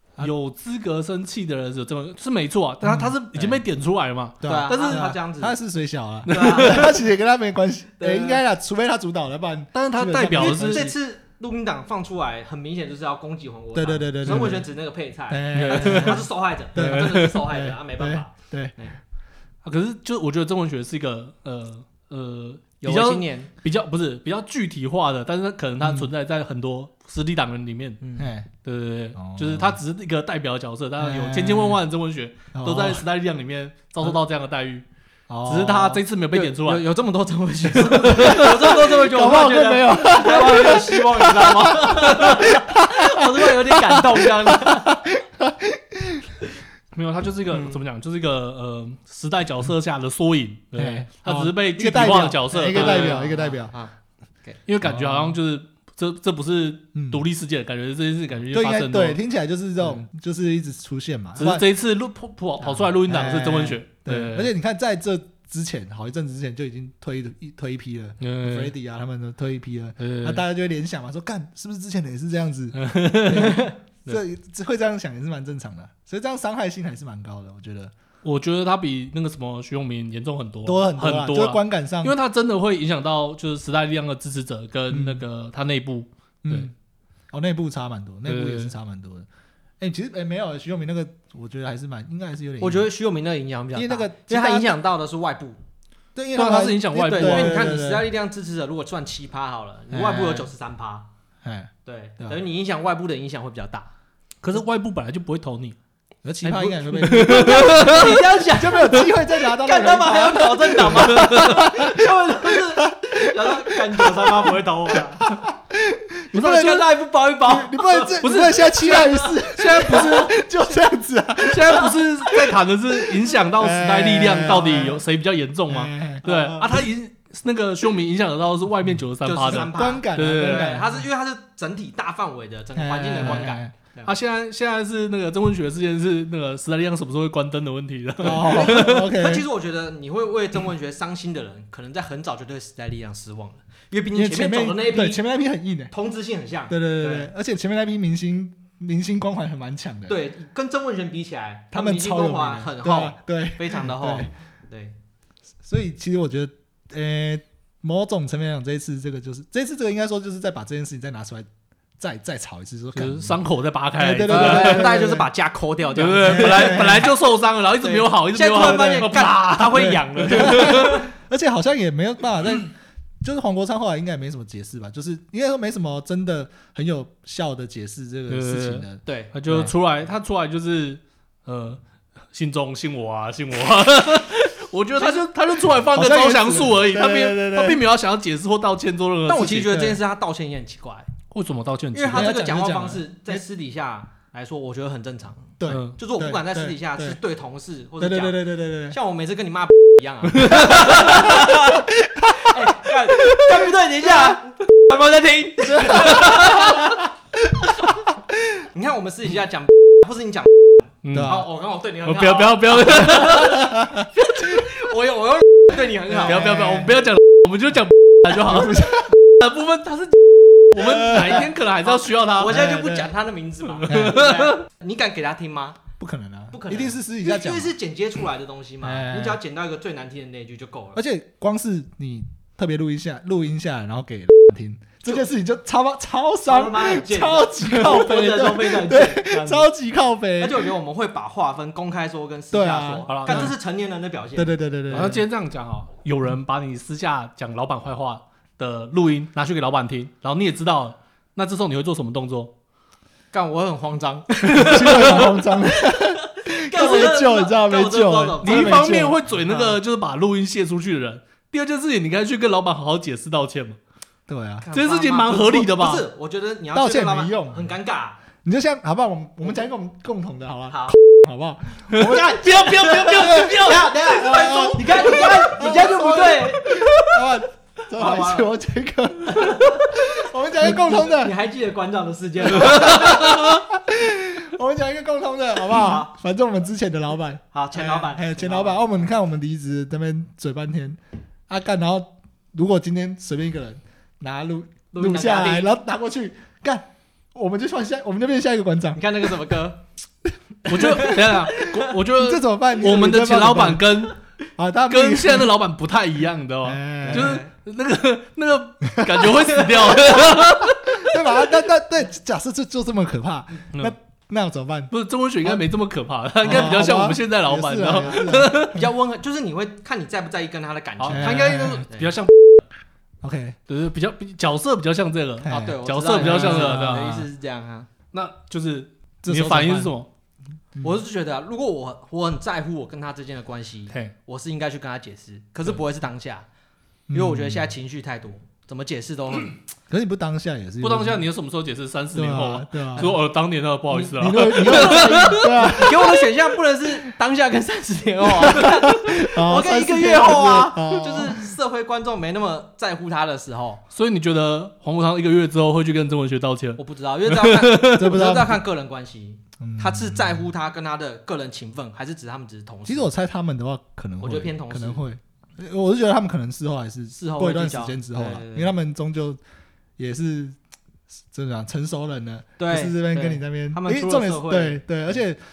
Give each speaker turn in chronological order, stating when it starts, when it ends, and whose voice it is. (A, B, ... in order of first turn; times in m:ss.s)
0:00.2-0:05.1 A
0:02.8-0:03.1 B
0:04.4-0:10.9 B
0:04.4-0:05.6 C
0:06.3-0:06.9 A
0:06.3-0:07.0 C
0:08.0-0:08.4 C
0:09.7-0:10.9 A
0:10.2-0:19.0 C
0:13.7-0:14.7 B
0:14.3-0:14.5 A
0:15.3-0:18.7 B
0:15.5-0:17.4 A
0:19.6-0:28.0 A
0:22.8-0:23.5 C
0:25.8-0:26.1 B
0:28.0-0:28.3 C
0:28.2-0:28.5 B
0:28.6-0:34.8 A
0:29.2-0:29.8 B
0:31.0-0:31.8 B
0:32.5-0:33.0 B
0:35.3-0:36.0 B
0:35.4-0:36.8 A
0:36.3-0:44.9 C
0:37.8-0:38.5 A
0:38.2-0:46.3 B
0:46.9-0:53.3 A
0:47.5-0:47.8 C
0:50.7-0:53.7 B
0:52.7-0:53.9 C
0:54.7-0:59.2 A
0:54.8-0:55.4 B
0:56.9-0:57.2 B
0:58.5-1:01.6 B
1:01.4-1:04.5 A
1:03.0-1:17.9 B
1:08.2-1:08.7 A
1:10.0-1:10.4 A
1:12.7-1:14.2 A
1:18.2-1:26.7 A
1:20.6-1:22.2 B
1:24.9-1:25.2 B
1:26.4-1:26.7 B
1:27.3-1:29.3 B
1:28.2-1:28.7 A
1:29.8-1:32.9 B
1:32.6-1:35.6 C
1:33.7-1:34.8 B
1:36.1-1:38.1 B
1:36.3-1:37.6 A
1:37.0-1:41.1 C
1:39.9-1:40.5 B
1:41.4-1:42.4 B
1:41.8-1:43.9 C
1:44.4-1:45.8 A
1:46.2-1:54.5 B
1:46.4-1:55.3 C
1:47.0-1:48.2 A
1:51.2-1:51.5 A
1:55.2-1:56.9 B
1:56.3-1:58.3 C
1:56.4-1:56.8 A
1:57.4-2:02.5 B
1:58.2-2:00.3 A
1:58.8-1:59.3 C
2:01.4-2:10.8 A
2:03.1-2:05.0 B
2:05.7-2:06.8 B
2:09.2-2:14.1 C
2:09.4-2:11.0 B
2:12.7-2:13.7 B
2:13.2-2:13.5 A
2:14.0-2:19.0 A
2:18.2-2:19.4 B
2:18.2-2:25.2 C
2:24.1-2:25.9 B
2:25.9-2:27.3 C
2:26.7-2:30.2 B
2:30.1-2:35.0 C
2:31.7-2:34.3 B
2:35.6-2:41.5 B
2:42.0-2:43.4 B
2:43.0-2:44.9 A
2:44.0-2:45.3 B
2:44.2-2:47.1 C
2:45.9-2:51.0 A
2:46.2-2:47.1 B
2:47.8-2:51.1 C
2:48.6-2:49.1 B
2:49.6-2:52.7 B
2:53.2-2:59.7 B
2:58.3-3:01.8 A
2:59.0-2:59.3 C
3:02.3-3:09.8 A
3:05.0-3:05.2 C
3:05.9-3:07.8 B
3:09.3-3:11.1 C
3:09.4-3:10.0 B
3:11.3-3:12.3 A
3:11.9-3:26.8 C
3:12.1-3:13.4 B
3:15.6-3:17.2 B
3:15.7-3:16.0 A
3:18.0-3:19.0 B
3:20.4-3:23.7 B
3:20.5-3:21.3 A
3:25.6-3:27.0 B
3:25.9-3:26.7 A
3:28.7-3:30.5 C
3:31.0-3:31.4 A
3:31.1-3:31.4 B
3:31.2-3:33.7 C
3:32.0-3:33.7 A
3:33.3-3:34.6 B
3:34.2-3:36.5 C
3:36.1-3:37.1 B
3:36.2-3:42.6 A
3:38.2-3:39.1 B
3:40.7-3:41.5 B
3:41.8-3:45.8 C
3:42.4-3:43.1 B
3:43.8-3:44.6 A
3:43.8-3:44.2 B
3:46.0-3:47.7 B
3:46.5-3:51.0 C
3:48.8-3:49.4 B
3:50.9-4:00.7 B
3:56.5-3:59.7 C
4:00.4-4:05.2 C
4:02.5-4:03.5 B
4:03.1-4:03.5 A
4:04.4-4:05.2 B
4:04.9-4:12.5 A
4:13.3-4:18.8 C
4:14.5-4:15.3 A
4:14.5-4:19.7 B
4:18.4-4:23.8 A
4:24.3-4:24.6 B
4:24.6-4:28.2 C
4:24.7-4:26.0 A
4:26.7-4:27.7 B
4:28.4-4:41.3 B
4:30.7-4:31.0 C
4:31.9-4:34.6 A
4:32.1-4:36.9 C
4:36.7-4:37.2 A
4:37.9-4:38.5 C
4:39.3-4:40.0 C
4:40.6-4:43.5 C
4:42.6-4:59.0 B
4:45.7-4:46.1 C
4:47.5-4:48.8 C
4:54.9-4:55.7 C
4:58.9-4:59.8 C
5:00.7-5:04.2 A
5:00.7-5:01.9 C
5:00.8-5:01.3 B
5:02.1-5:04.0 B
5:04.6-5:05.5 B
5:04.9-5:11.2 A
5:06.6-5:07.4 B
5:07.1-5:07.5 C
5:08.9-5:14.9 B
5:14.9-5:18.8 A
5:16.4-5:18.8 B
5:18.1-5:22.1 C
5:21.0-5:22.6 A
5:21.1-5:21.8 B
5:23.2-5:23.6 B
5:23.7-5:27.2 A
5:25.4-5:27.2 B
5:25.5-5:27.9 C
5:28.1-5:30.1 A
5:29.2-5:29.9 B
5:30.8-5:36.4 C
5:37.1-5:37.7 B
5:37.1-5:39.6 C
5:39.9-5:41.2 B
5:40.8-5:45.8 A
5:42.1-5:43.1 B
5:43.9-5:46.2 B
5:44.5-5:53.8 C
5:48.4-5:51.5 B
5:53.9-5:58.2 A
5:56.8-6:03.1 C
5:57.9-5:58.6 B
5:59.6-6:00.4 B
6:02.9-6:09.4 B
6:04.2-6:05.0 C
6:07.1-6:08.7 C
6:10.0-6:10.6 B
6:11.3-6:15.4 B
6:12.6-6:14.8 C